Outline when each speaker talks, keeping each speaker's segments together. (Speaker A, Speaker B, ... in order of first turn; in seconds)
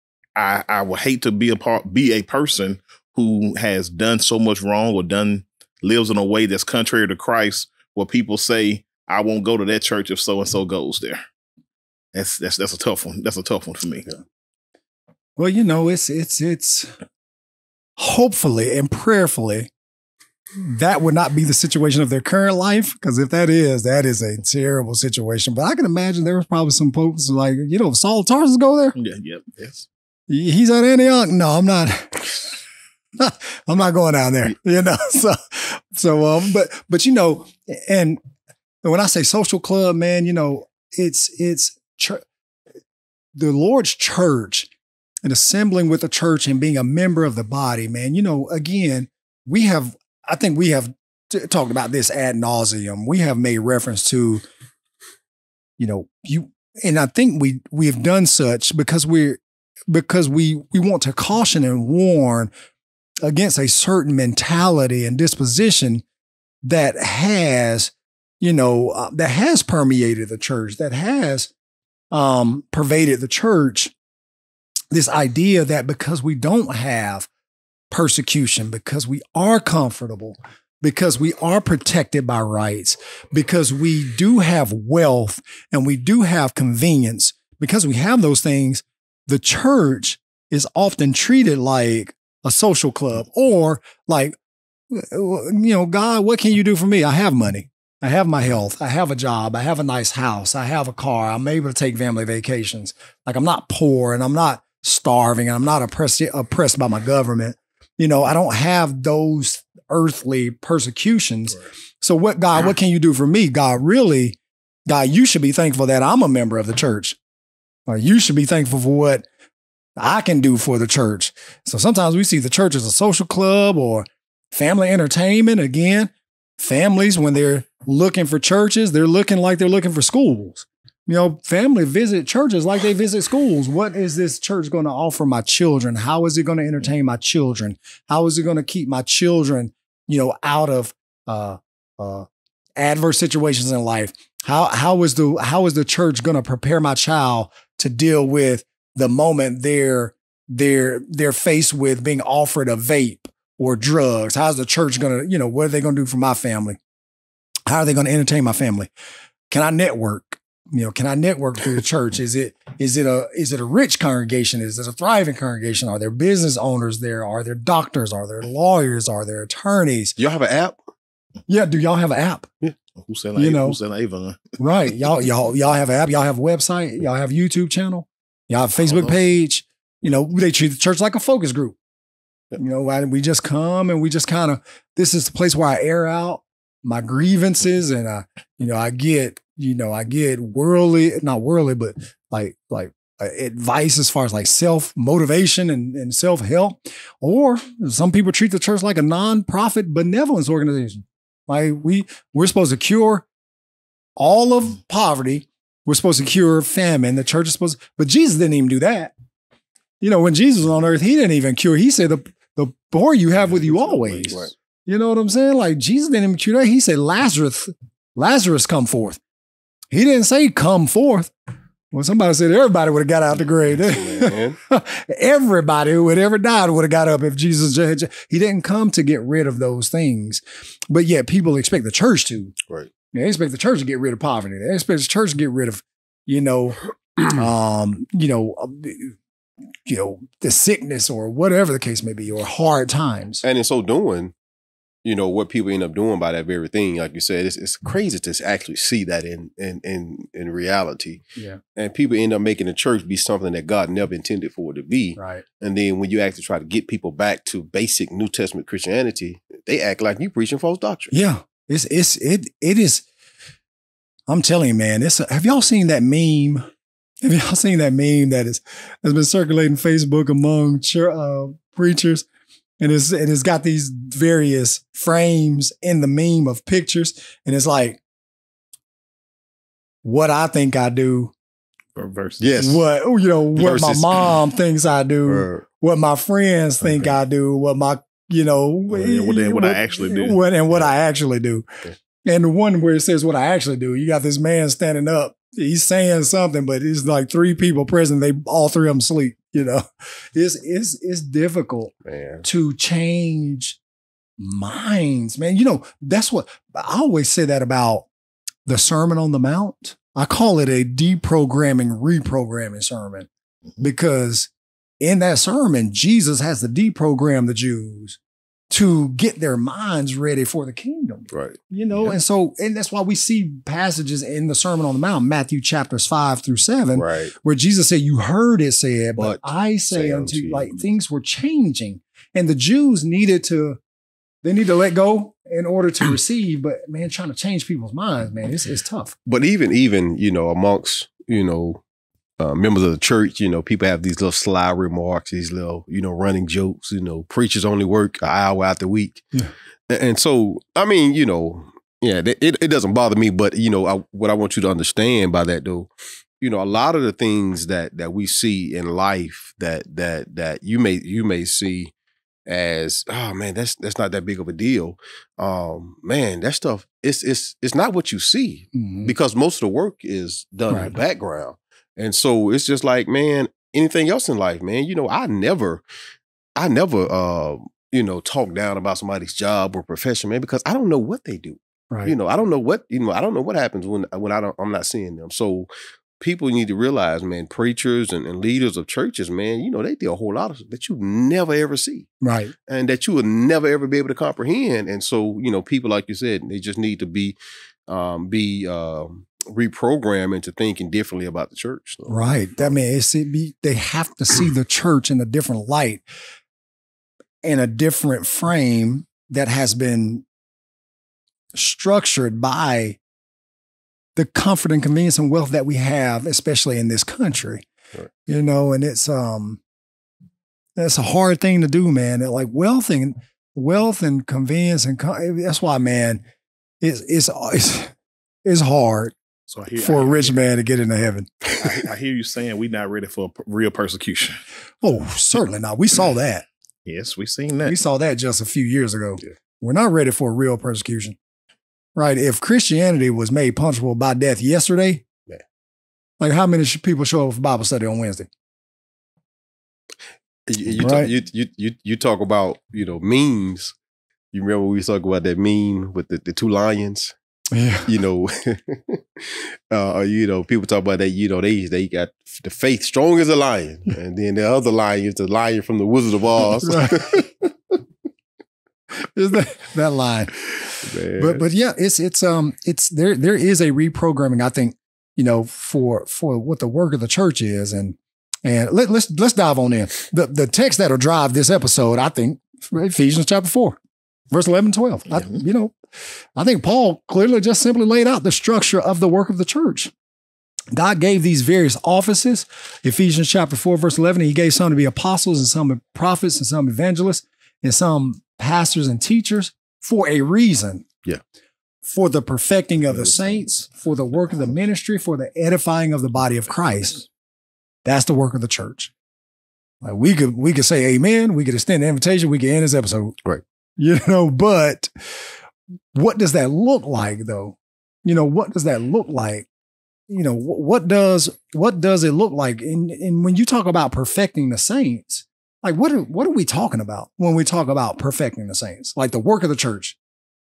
Speaker A: 0.4-11.2, 12.1-14.2, 29.0-29.9, 173.0-174.6, 281.9-282.5, 288.9-290.4, 429.5-430.4, 431.6-434.4, 436.9-437.8
Speaker B: 15.4-16.9, 18.0-19.7, 20.6-29.0, 30.3-32.4, 33.2-38.2, 38.8-42.2, 43.4-44.7, 45.2-54.4, 55.8-62.5, 63.2-66.0, 66.6-71.5, 72.1-73.9, 74.9-77.3, 77.9-94.4, 94.9-114.4, 114.9-117.2, 117.9-119.2, 120.0-156.8, 157.7-158.9, 159.5-170.2, 171.5-172.5, 173.4-173.8, 174.6-181.8, 182.6-203.2, 204.2-209.1, 210.0-219.2, 219.9-221.3, 221.9-232.6, 233.1-239.2, 239.9-243.4, 251.4-251.6, 255.2-255.4, 261.1-263.1, 264.3-266.7, 267.2-272.3, 272.8-278.0, 280.0-281.3, 282.6-291.7, 292.2-303.8, 304.4-308.1, 308.7-313.3, 313.8-314.5, 315.0-318.2, 318.7-333.8, 334.4-339.2, 368.7-369.1, 392.2-392.5, 402.1-406.0, 407.4-410.2, 411.6-413.0, 414.2-417.6, 418.3-419.6, 420.8-426.2, 426.8-427.9, 428.4-429.1, 429.8-431.4, 434.8-436.4, 437.6-441.2, 442.0-445.1, 446.2-448.3, 450.8-451.1, 457.5-457.9, 466.7-467.1, 469.0-483.8, 484.3-485.8, 486.4-489.9, 490.7-500.9, 501.9-507.1, 507.9-508.9, 509.8-513.2, 513.8-514.9, 515.9-519.5, 520.1-530.0
Speaker C: 170.2-170.8, 213.5-214.5, 223.7-224.6, 243.4-244.3, 245.0-251.2, 251.8-261.1, 282.4-282.8, 283.6-284.4, 285.3-285.6, 302.1-302.4, 321.3-321.6, 326.9-327.3, 329.2-330.8, 339.3-341.8, 342.4-349.2, 349.9-361.9, 362.5-375.8, 376.6-385.7, 386.2-392.1, 392.7-397.4, 397.9-402.1, 450.5-453.8, 454.3-457.1, 457.9-467.3, 470.9-471.4